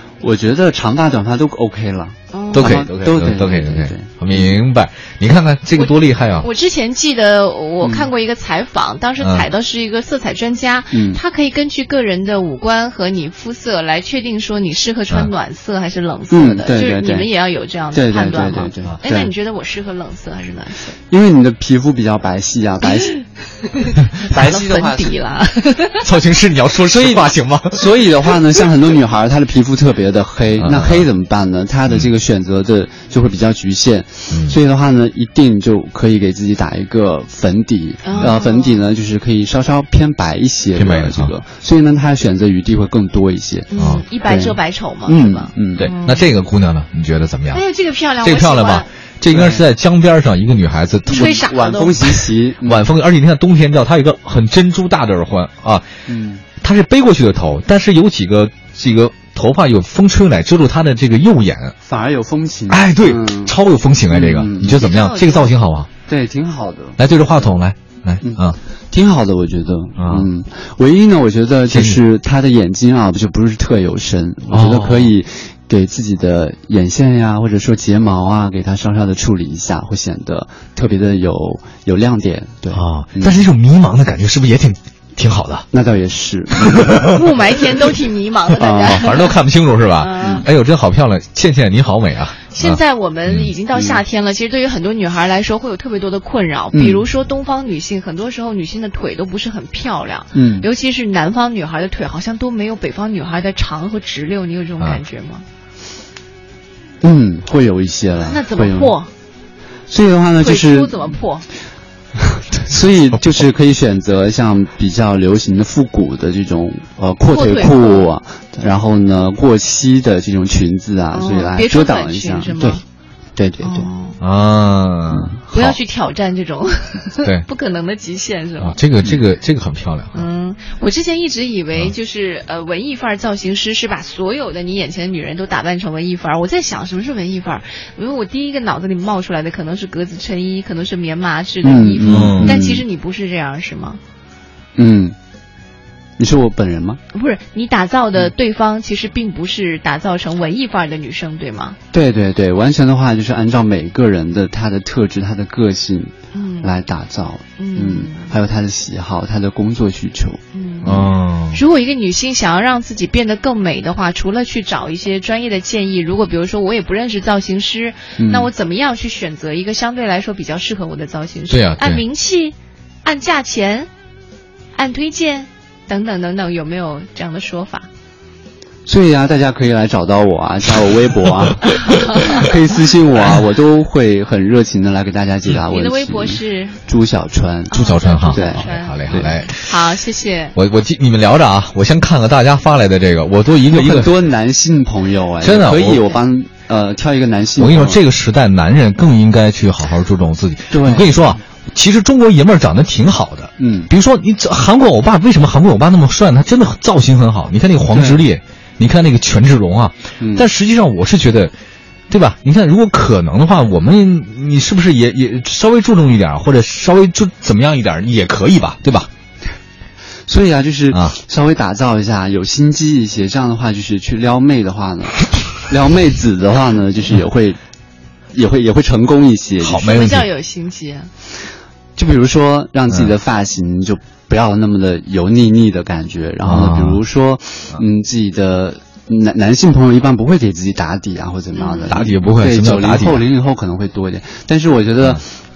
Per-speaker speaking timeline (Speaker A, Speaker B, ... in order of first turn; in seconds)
Speaker A: 0.2-4.6, 7.8-8.1, 10.9-11.2, 16.3-17.3, 17.9-19.3, 21.1-23.2, 24.2-25.2, 26.9-43.7, 44.2-45.9, 49.3-49.6, 51.1-52.9, 56.1-56.4, 61.9-63.5, 64.1-64.8, 66.1-67.0, 68.2-83.5, 85.7-87.2, 88.6-89.0, 93.8-94.0, 96.7-97.0, 100.3-100.7, 107.0-109.0, 109.9-111.1, 112.2-122.8, 123.4-123.9, 125.1-125.4, 141.6-142.8, 144.8-145.2, 146.2-147.0, 151.9-161.1, 168.2-168.5, 178.9-187.8, 188.3-189.3, 193.7-198.0, 200.7-201.3, 203.6-203.9, 207.9-208.2, 210.2-210.5, 220.3-227.6, 228.3-229.9, 232.0-245.3
Speaker B: 2.3-2.9, 5.8-21.0, 23.0-26.1, 38.0-38.8, 43.7-46.3, 47.5-48.9, 51.1-52.3, 64.7-65.5, 87.0-89.4, 90.0-90.5, 92.5-105.5, 108.3-109.1, 110.4-111.5, 117.3-118.1, 121.1-122.8, 123.6-124.2, 125.5-128.8, 130.1-144.0, 147.1-151.8, 156.3-156.7, 157.6-158.3, 160.5-173.9, 174.8-177.9, 181.9-182.4, 185.7-186.8, 187.7-189.0, 189.5-190.6, 229.8-231.1, 241.6-242.0
Speaker C: 2.5-6.5, 26.0-27.9, 30.6-31.1, 34.3-34.6, 40.8-41.3, 43.8-44.0, 45.8-47.6, 48.2-51.4, 52.6-55.9, 56.6-61.8, 62.7-65.9, 67.0-68.6, 70.0-70.3, 71.7-72.0, 74.5-75.1, 82.7-85.7, 86.6-87.1, 88.9-93.5, 124.2-125.8, 128.6-130.2, 142.1-142.6, 160.8-161.6, 171.5-172.0, 187.7-189.7, 190.6-194.1, 195.4-196.1, 197.6-211.5, 212.1-219.1, 229.6-230.2, 236.4-237.0, 241.9-243.2